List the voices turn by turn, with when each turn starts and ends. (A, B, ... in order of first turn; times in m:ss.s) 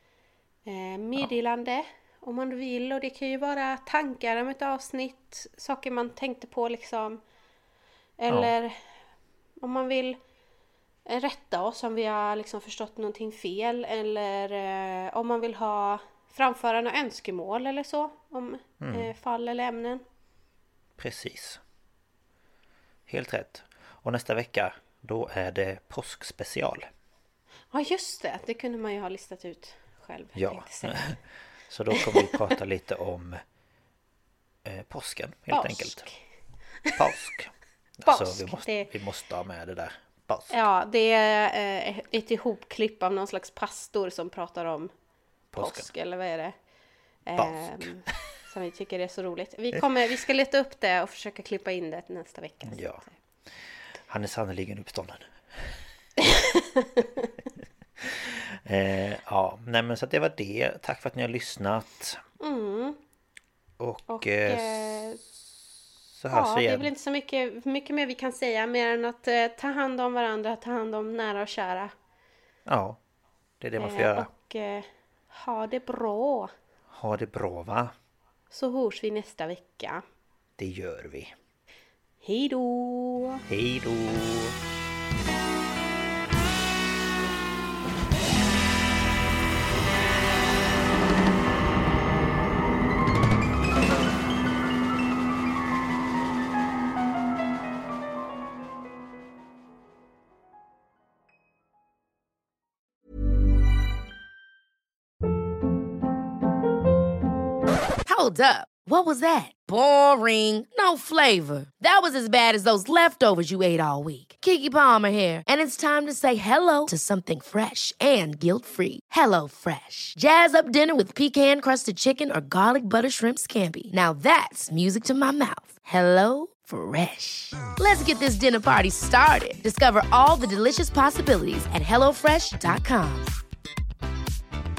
0:00.6-0:07.2 A
0:08.2-0:08.8 A
0:09.6-0:10.2 A
0:11.0-0:20.0 A
0:18.8-0:19.1 B
0:21.0-0:21.6 B
0:23.1-0:26.9 B
0:27.7-0:31.0 A
0:30.4-0:33.4 B
0:31.9-0:32.5 A
0:34.6-0:36.1 B
0:35.5-0:36.2 A
0:36.9-0:40.6 B
0:38.0-0:38.9 A
0:40.5-0:44.9 A
0:45.5-0:45.9 B
0:45.6-0:46.5 A
0:47.2-0:53.1 A
0:47.4-0:47.9 B
0:52.6-0:55.8 B
0:56.2-0:57.3 A
0:58.0-1:02.2 B
1:02.4-1:03.0 A
1:03.8-1:05.6 B
1:04.1-1:05.2 A
1:06.2-1:06.9 B
1:06.3-1:11.9 A
1:12.6-1:13.0 B
1:13.6-1:14.3 B
1:13.8-1:16.5 A
1:16.9-1:17.9 B
1:18.5-1:20.0 A
1:20.6-1:21.3 B
1:22.2-1:23.4 A
1:23.4-1:24.6 B
1:48.0-2:13.3 C